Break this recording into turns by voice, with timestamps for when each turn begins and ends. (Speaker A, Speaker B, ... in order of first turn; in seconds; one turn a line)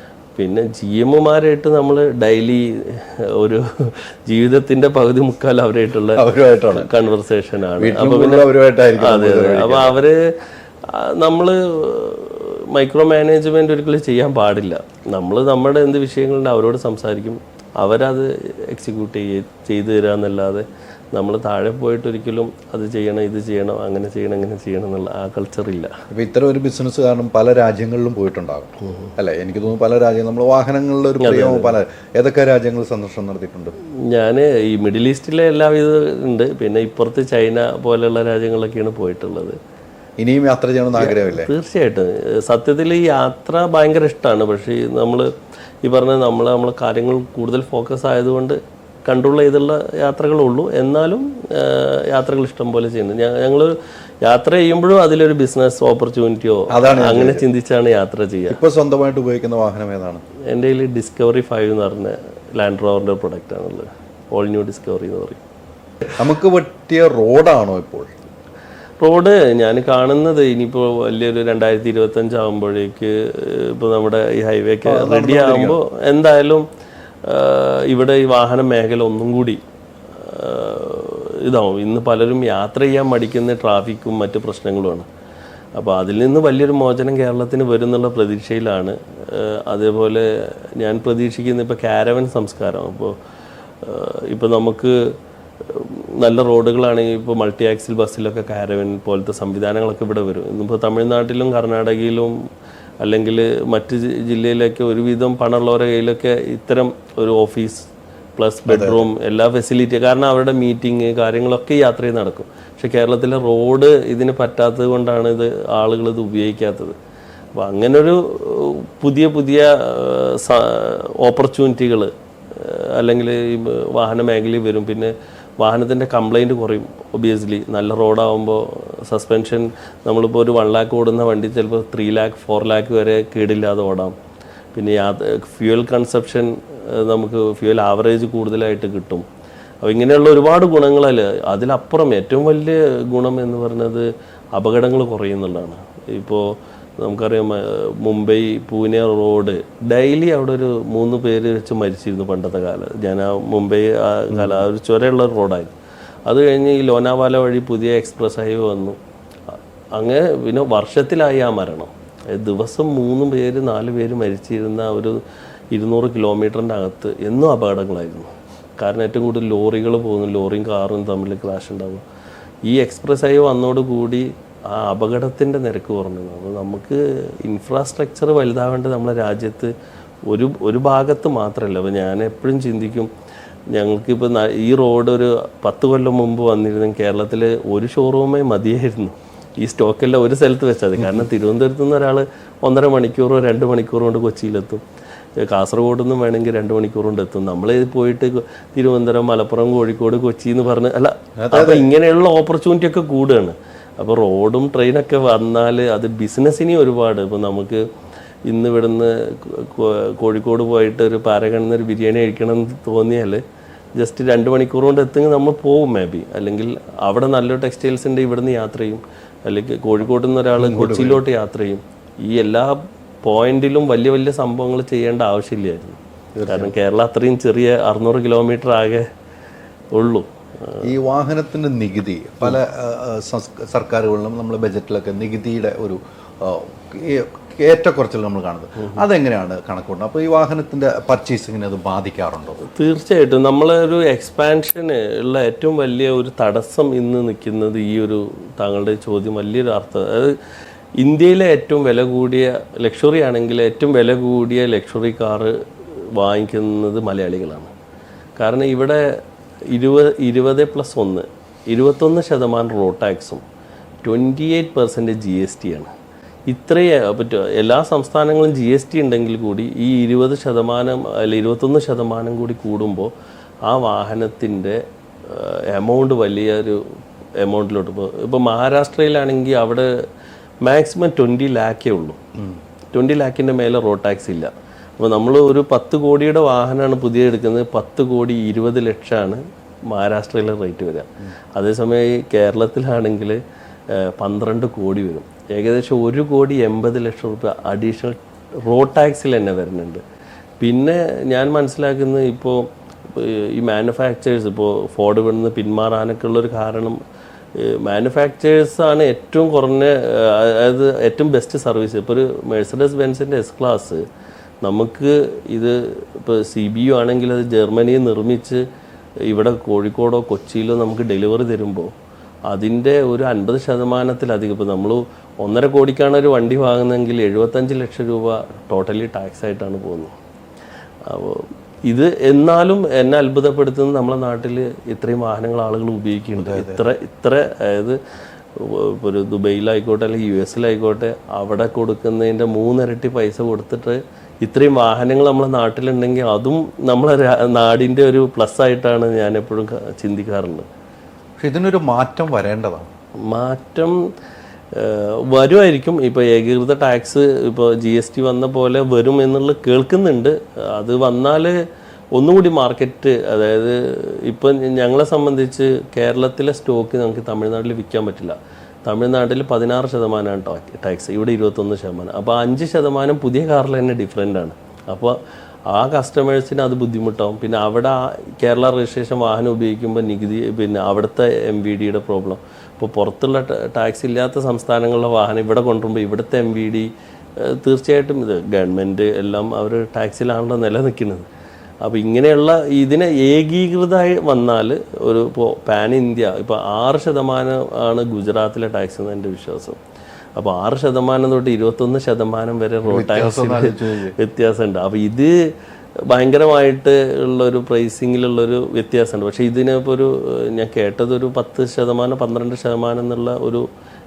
Speaker A: 0.4-25.9
Speaker B: 6.2-6.9
Speaker B: 7.8-10.0
Speaker B: 26.1-33.7
Speaker A: 31.2-31.8
Speaker A: 34.0-39.6
Speaker B: 40.2-41.5
Speaker A: 41.0-45.3
Speaker A: 45.8-58.6
Speaker B: 56.7-57.5
Speaker B: 58.5-60.2
Speaker A: 60.5-65.4
Speaker B: 66.2-68.1
Speaker A: 69.0-76.7
Speaker B: 74.9-75.8
Speaker A: 77.2-79.6
Speaker A: 80.2-85.1
Speaker A: 85.8-93.2
Speaker A: 93.8-102.4
Speaker A: 103.0-117.0
Speaker B: 108.7-109.1
Speaker A: 117.6-134.2
Speaker A: 134.7-139.2
Speaker A: 139.8-155.7
Speaker B: 154.3-154.7
Speaker A: 156.3-159.0
Speaker A: 160.0-172.0
Speaker A: 172.7-179.7
Speaker A: 180.3-183.1
Speaker A: 183.7-194.8
Speaker B: 191.0-191.3
Speaker A: 195.4-207.9
Speaker B: 201.4-201.9
Speaker A: 208.5-213.4
Speaker A: 214.0-229.1
Speaker B: 220.6-221.2
Speaker B: 226.4-226.8
Speaker A: 229.9-230.8
Speaker B: 230.8-242.6
Speaker A: 242.6-250.4
Speaker A: 251.0-255.6
Speaker A: 256.1-257.7
Speaker A: 258.4-263.4
Speaker A: 264.0-265.9
Speaker A: 266.5-273.1
Speaker A: 273.6-276.8
Speaker A: 277.4-279.9
Speaker A: 280.6-282.2
Speaker A: 282.9-293.4
Speaker A: 293.9-300.0
Speaker A: 300.6-307.0
Speaker A: 307.6-314.0
Speaker A: 314.6-318.6
Speaker A: 319.3-321.9
Speaker A: 322.5-330.1
Speaker A: 331.1-338.0
Speaker B: 336.4-336.9
Speaker A: 338.6-350.7
Speaker B: 351.4-352.9
Speaker A: 353.3-354.1
Speaker A: 354.7-361.6
Speaker A: 362.1-375.2
Speaker A: 375.7-391.3
Speaker A: 391.8-399.8
Speaker A: 400.4-405.5
Speaker B: 402.9-404.1
Speaker A: 406.1-413.7